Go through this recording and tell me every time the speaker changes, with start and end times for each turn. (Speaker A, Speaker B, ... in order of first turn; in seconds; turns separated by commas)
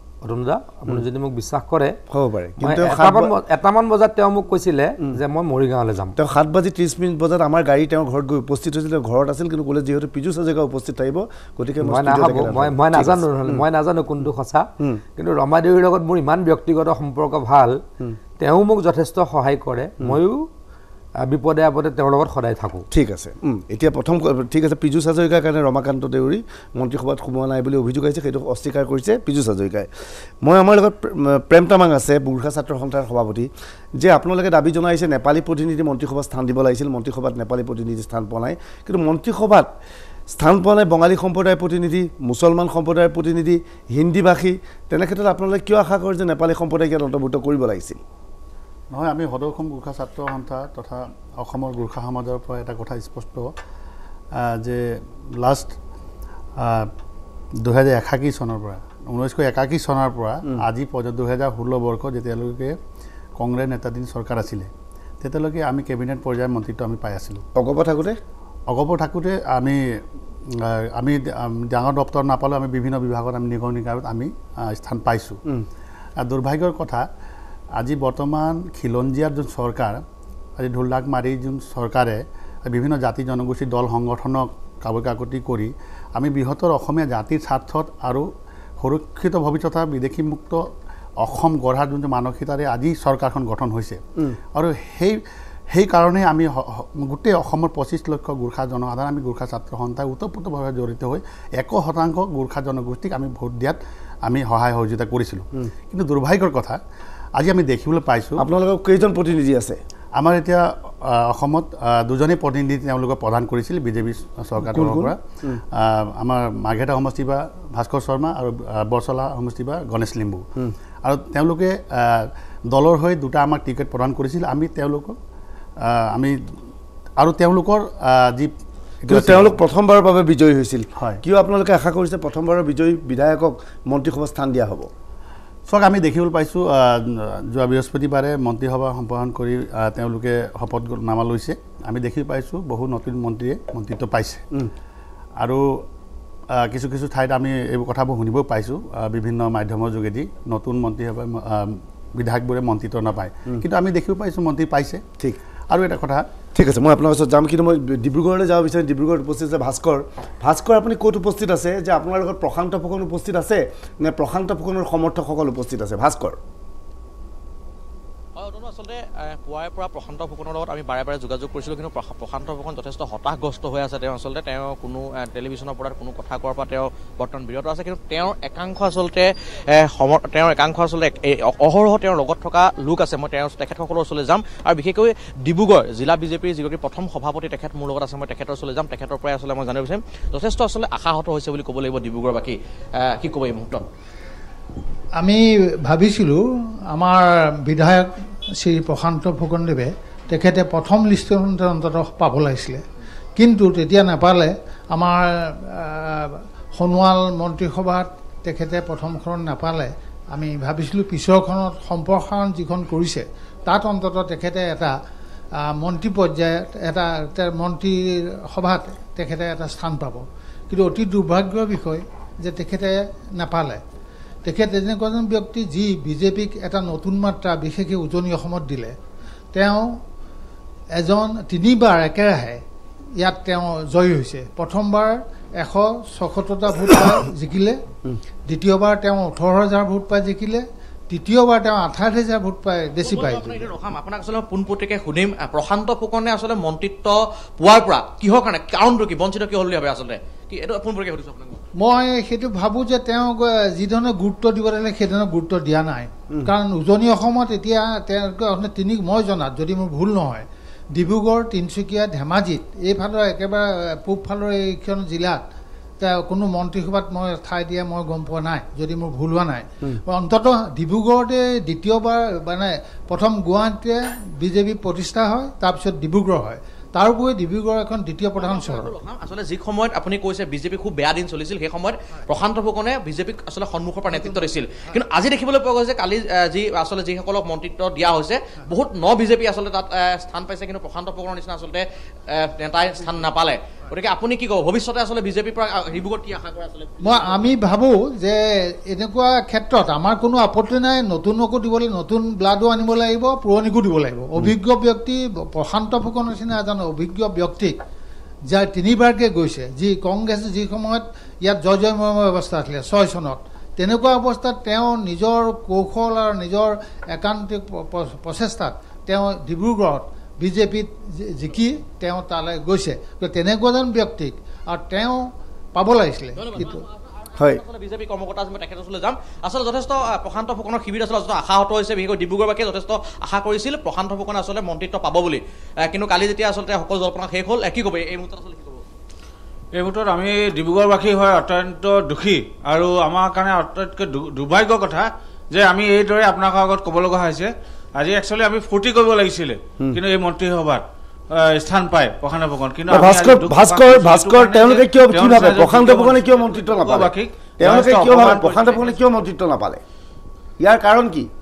Speaker A: 0.2-1.9, Speaker B: 2.1-3.3, Speaker A: 2.6-6.2, Speaker B: 6.2-13.7, Speaker A: 11.8-17.8, Speaker A: 18.4-20.5, Speaker A: 21.2-22.9, Speaker B: 22.9-29.9, Speaker B: 30.4-39.7, Speaker B: 40.3-48.0, Speaker C: 48.9-53.5, Speaker C: 54.3-55.8, Speaker C: 56.6-56.9, Speaker C: 57.6-62.8, Speaker C: 63.4-67.4, Speaker B: 67.5-68.2, Speaker C: 68.7-75.4, Speaker C: 76.2-77.1, Speaker C: 77.8-80.0, Speaker C: 80.6-88.3, Speaker C: 88.8-94.0, Speaker C: 94.5-106.8, Speaker C: 107.4-108.4, Speaker B: 108.4-109.8, Speaker C: 110.2-120.5, Speaker B: 114.6-115.6, Speaker C: 121.0-125.2, Speaker C: 125.8-126.4, Speaker C: 127.2-129.6, Speaker B: 129.1-134.9, Speaker C: 131.0-131.2, Speaker C: 135.7-144.4, Speaker C: 145.4-145.8, Speaker C: 146.5-155.0, Speaker C: 155.7-156.3, Speaker B: 156.5-166.4, Speaker D: 168.4-193.8, Speaker E: 195.2-196.4, Speaker E: 196.9-202.8, Speaker E: 203.4-214.9, Speaker E: 215.6-223.8, Speaker E: 224.4-229.0, Speaker E: 229.5-230.0, Speaker E: 230.9-232.6, Speaker E: 233.2-237.8, Speaker E: 238.5-243.7, Speaker D: 243.0-251.6, Speaker E: 251.8-265.4, Speaker E: 266.0-279.0, Speaker D: 278.4-297.5, Speaker E: 297.0-307.8, Speaker E: 308.5-326.8, Speaker D: 326.4-338.8, Speaker B: 327.4-327.6, Speaker F: 339.8-358.9, Speaker B: 352.9-359.8, Speaker B: 360.6-361.3